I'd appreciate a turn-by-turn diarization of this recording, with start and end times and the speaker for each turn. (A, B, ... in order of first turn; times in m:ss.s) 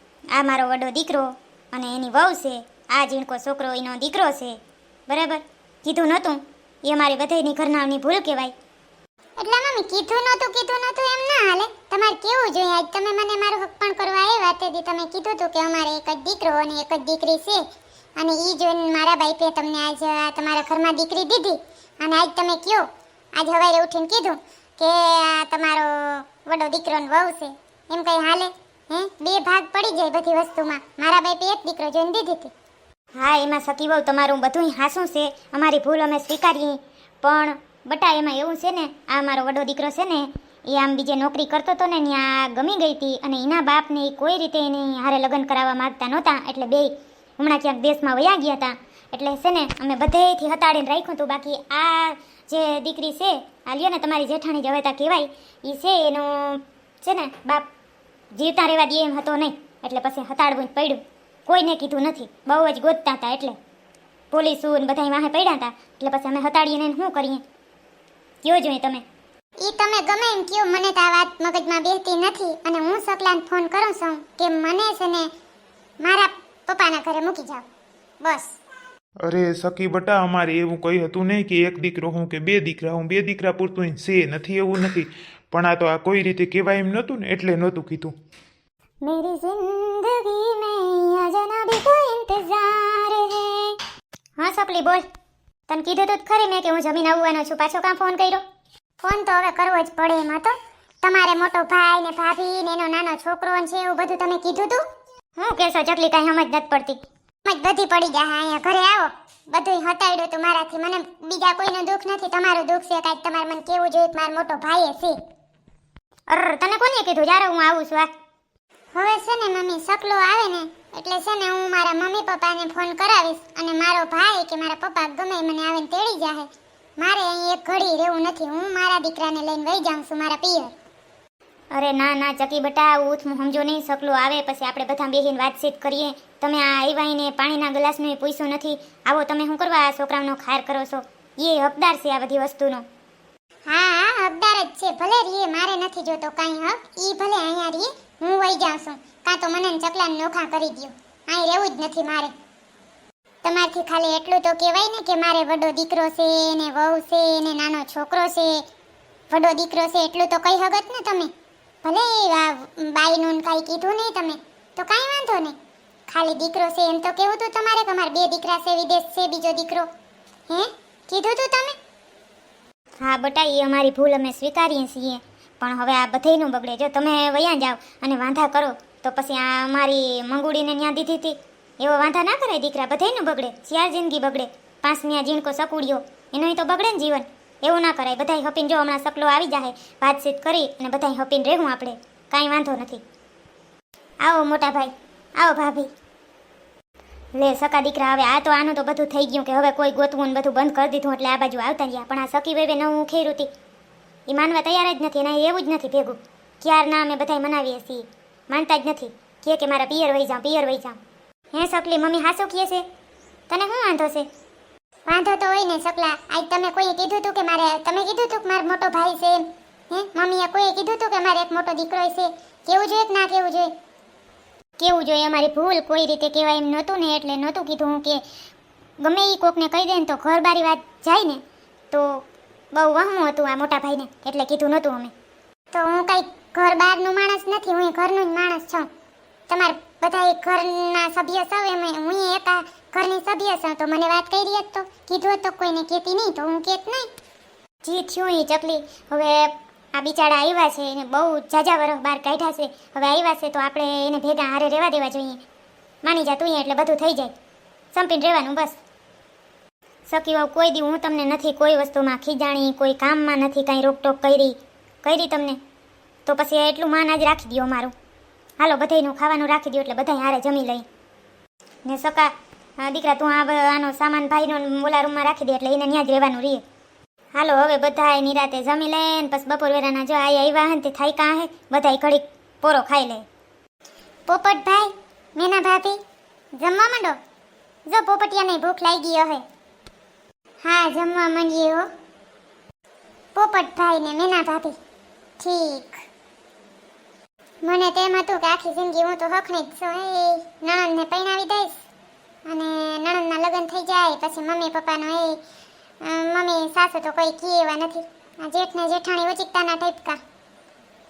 0:00.3-0:08.5 A
0:09.4-0:17.6 B
0:18.2-0:32.5 B
0:33.2-0:57.6 A
0:58.3-1:03.6 A
1:04.3-1:07.4 A
1:08.4-1:09.0 A
1:09.6-1:15.3 B
1:16.0-1:17.6 B
1:18.2-1:18.6 B
1:19.2-1:28.1 C
1:29.1-1:33.4 A
1:34.4-1:35.0 A
1:35.7-1:38.4 A
1:39.0-1:44.8 B
1:45.4-1:47.0 A
1:47.4-1:55.2 B
1:56.3-1:58.1 A
1:58.9-2:06.5 B
2:07.0-2:10.7 B
2:11.7-2:22.8 A
2:23.7-2:32.3 B
2:33.4-2:38.6 B
2:39.3-2:41.3 B
2:41.8-2:45.5 B
2:46.1-2:49.9 B
2:50.5-2:51.8 B
2:53.0-3:13.0 A
3:14.2-3:15.9 A
3:17.3-3:23.5 A
3:24.3-3:31.0 A
3:31.5-3:32.8 A
3:33.5-3:34.3 A
3:35.1-3:43.7 B
3:44.8-3:48.2 A
3:49.0-3:55.1 A
3:55.7-3:58.9 B
3:59.5-4:07.1 B
4:07.8-4:15.4 A
4:16.0-4:17.3 A
4:17.9-4:18.8 A
4:20.1-4:25.6 A
4:26.2-4:27.9 A
4:28.6-4:30.8 A
4:31.8-4:36.6 A
4:37.3-4:43.2 A
4:44.3-4:46.0 B
4:46.6-4:47.2 B
4:47.9-4:49.4 B
4:50.6-4:51.8 B
4:53.3-4:54.8 B
4:55.4-4:56.0 B
4:57.6-5:01.8 B
5:02.4-5:05.4 B
5:06.0-5:10.2 B